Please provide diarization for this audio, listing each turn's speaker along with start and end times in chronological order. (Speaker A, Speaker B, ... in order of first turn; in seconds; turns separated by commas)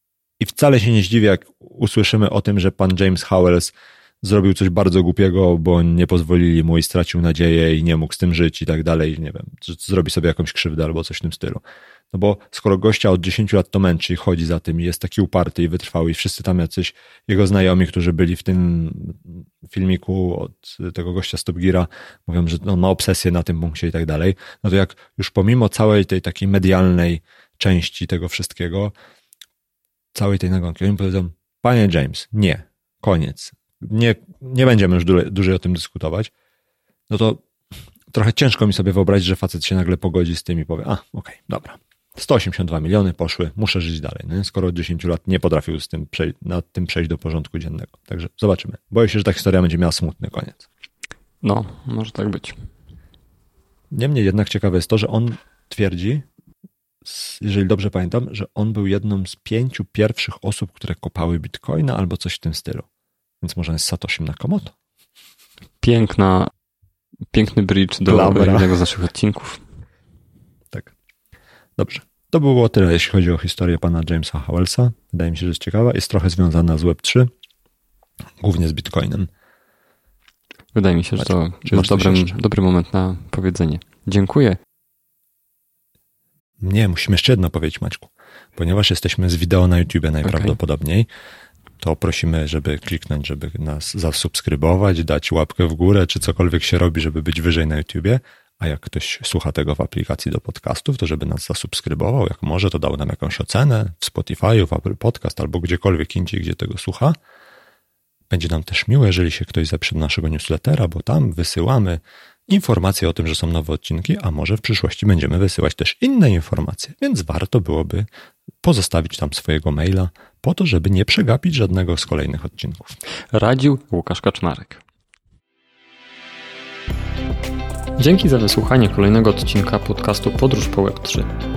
Speaker A: 0.4-28.9, Speaker A: 30.1-36.3, Speaker A: 37.1-37.4, Speaker A: 38.1-50.6, Speaker B: 51.4-52.5, Speaker A: 53.9-56.2, Speaker A: 57.0-62.9, Speaker A: 63.4-64.7, Speaker B: 65.8-66.5, Speaker B: 67.3-69.6, Speaker A: 68.1-68.8, Speaker A: 71.8-77.3, Speaker A: 78.4-79.3, Speaker B: 80.7-84.6, Speaker A: 81.2-82.4, Speaker A: 86.6-91.1, Speaker B: 90.2-90.5, Speaker A: 91.8-107.2, Speaker A: 108.3-118.1, Speaker A: 118.6-123.0, Speaker B: 123.3-124.8, Speaker B: 128.0-131.3